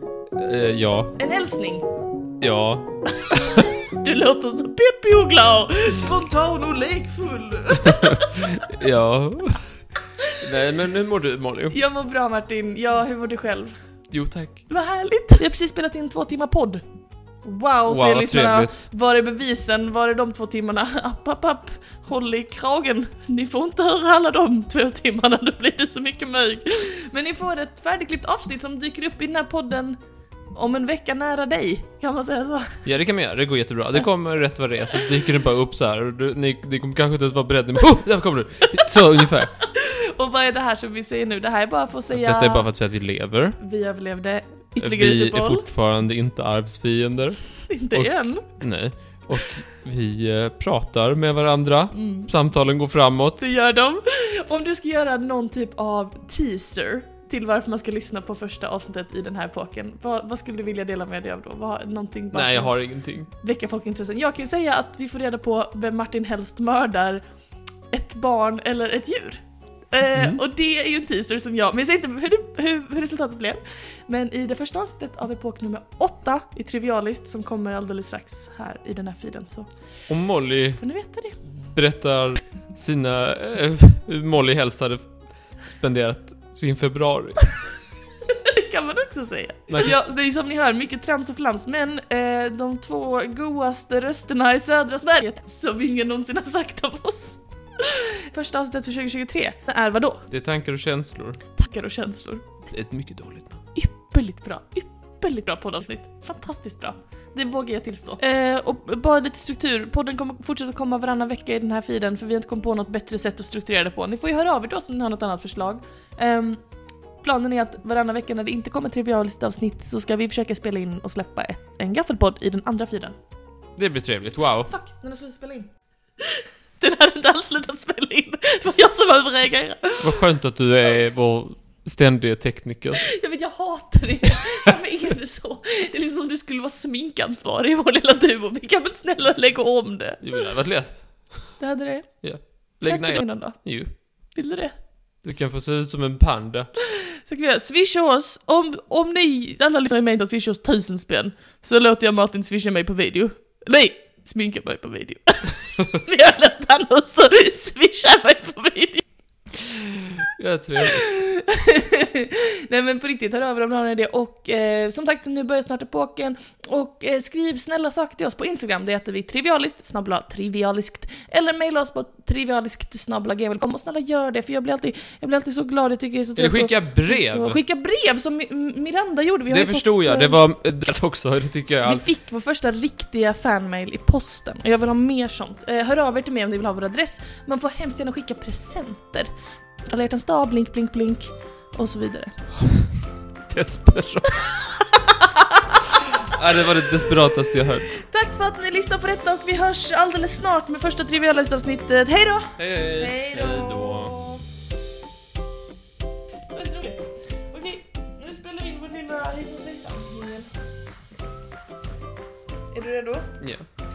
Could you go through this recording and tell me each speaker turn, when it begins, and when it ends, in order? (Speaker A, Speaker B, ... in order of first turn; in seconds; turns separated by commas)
Speaker A: 0.4-1.1, Speaker B: 1.2-1.9, Speaker A: 2.4-3.7, Speaker B: 3.9-8.6, Speaker A: 8.0-9.7, Speaker A: 10.4-11.8, Speaker B: 11.7-13.8, Speaker A: 14.1-14.7, Speaker B: 14.7-16.8, Speaker B: 17.4-30.0, Speaker A: 17.9-18.9, Speaker B: 30.5-32.8, Speaker A: 32.9-39.5, Speaker B: 39.6-42.7, Speaker A: 42.1-43.6, Speaker B: 43.6-45.7, Speaker A: 44.8-53.4, Speaker B: 47.7-48.5, Speaker B: 51.9-52.3, Speaker B: 53.4-62.8, Speaker A: 62.3-63.3, Speaker B: 63.4-67.2, Speaker B: 67.9-79.7, Speaker A: 70.1-70.4, Speaker A: 80.1-81.0, Speaker B: 80.8-81.4, Speaker A: 81.7-87.5, Speaker B: 88.3-100.2, Speaker A: 100.3-101.4, Speaker B: 101.5-102.5, Speaker A: 102.7-103.6, Speaker B: 103.8-116.6, Speaker B: 117.2-123.2, Speaker A: 123.8-124.7, Speaker B: 124.7-125.7, Speaker B: 126.2-130.2, Speaker A: 130.0-133.1, Speaker B: 133.0-140.2, Speaker A: 140.2-141.6, Speaker B: 141.6-144.8, Speaker A: 142.2-143.9, Speaker A: 145.2-146.7, Speaker B: 147.2-159.1, Speaker A: 160.4-161.1, Speaker B: 160.9-180.4, Speaker A: 176.4-177.6, Speaker A: 179.5-182.1, Speaker B: 181.8-189.3, Speaker B: 189.9-192.4, Speaker A: 193.5-194.5, Speaker B: 194.4-196.0, Speaker A: 196.2-197.9, Speaker B: 197.9-204.4, Speaker A: 202.6-204.2, Speaker B: 206.5-210.5, Speaker B: 212.7-213.4, Speaker A: 213.4-213.7